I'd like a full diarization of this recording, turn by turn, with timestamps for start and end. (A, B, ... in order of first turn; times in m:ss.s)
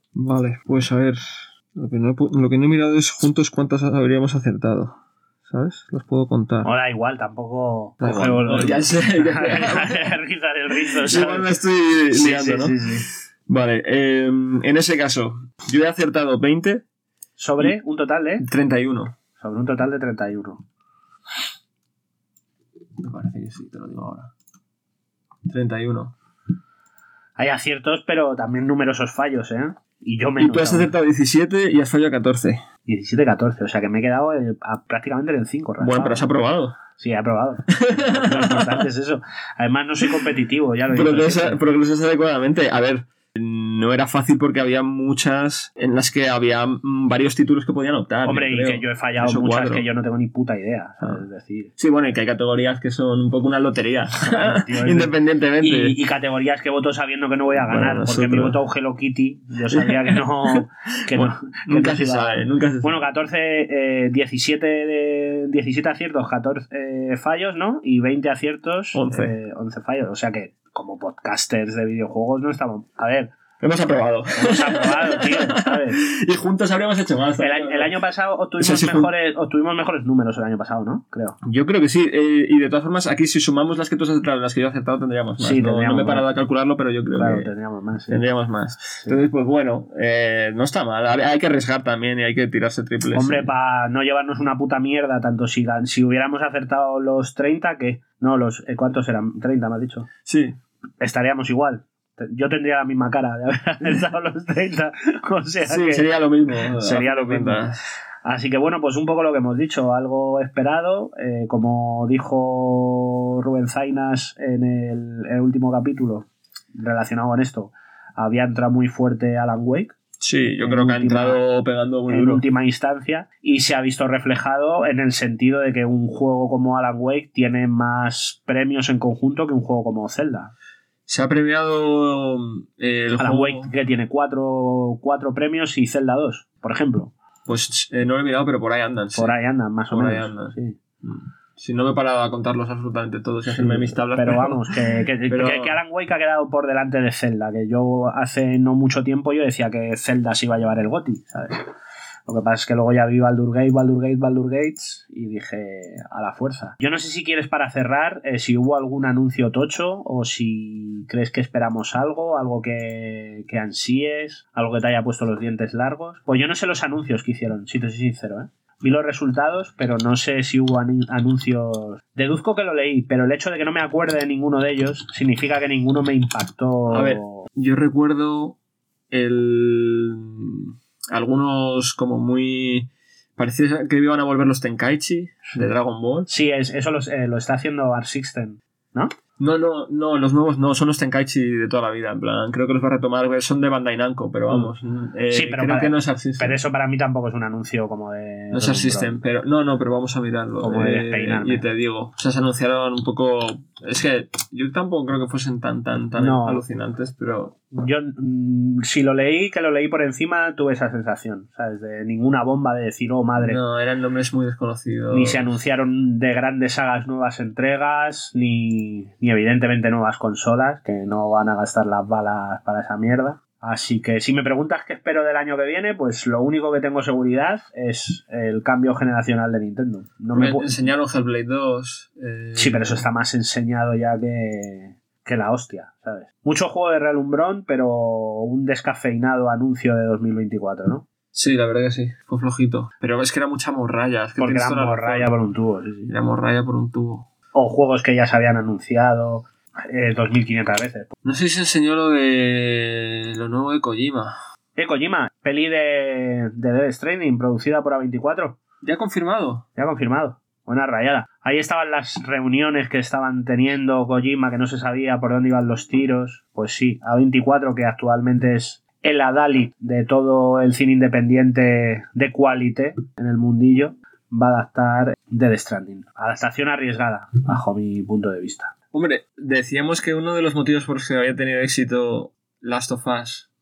0:00.2-0:06.7 A
0:06.6-0:11.5 B
0:08.0-0:10.1 A
0:10.8-0:12.9 A
0:12.1-0:13.1 B
0:13.5-0:16.8 A
0:17.4-0:18.5 B
0:18.4-0:19.2 A
0:19.4-0:20.6 B
0:23.0-0:24.3 A
0:25.5-0:26.1 A
0:27.4-0:30.9 B
0:30.4-0:32.6 A
0:32.9-0:36.3 B
0:35.8-0:36.8 A
0:37.0-0:41.6 B
0:37.7-0:38.8 A
0:40.9-0:49.9 A
0:48.2-0:51.7 B
0:51.8-0:56.0 A
0:54.2-1:13.3 B
0:57.6-0:58.6 A
0:59.7-1:03.1 A
1:08.9-1:09.3 A
1:13.6-1:17.9 A
1:14.4-1:16.0 B
1:17.4-1:21.4 B
1:18.6-1:19.1 A
1:21.4-1:27.5 A
1:25.4-1:26.3 B
1:27.1-1:28.2 B
1:28.1-1:33.5 A
1:33.1-1:40.1 B
1:40.2-1:40.6 A
1:41.0-1:46.1 B
1:45.6-1:47.8 A
1:46.7-1:47.7 B
1:48.2-1:59.9 B
2:00.2-2:02.4 A
2:00.6-2:01.4 B
2:02.1-2:10.5 B
2:11.1-2:13.7 A
2:13.1-2:17.1 B
2:17.5-2:19.4 A
2:19.2-2:20.8 B
2:19.9-2:24.7 A
2:23.5-2:31.6 B
2:25.3-2:25.8 A
2:32.3-2:57.5 B
2:56.9-2:58.6 A
2:59.1-3:06.3 A
3:06.3-3:09.1 B
3:09.4-3:16.6 A
3:15.3-3:19.2 B
3:18.5-3:27.6 A
3:20.6-3:21.6 B
3:26.2-3:26.6 B
3:27.7-3:33.6 B
3:33.4-3:35.5 A
3:35.1-3:50.8 B
3:50.3-3:53.0 A
3:52.6-4:01.0 B
4:01.3-4:05.3 A
4:04.4-4:06.1 B
4:06.1-4:07.3 A
4:07.5-4:11.1 B
4:11.2-4:14.3 A
4:14.8-4:18.6 B
4:18.8-4:19.7 A
4:19.8-4:38.7 B
4:38.9-4:43.5 A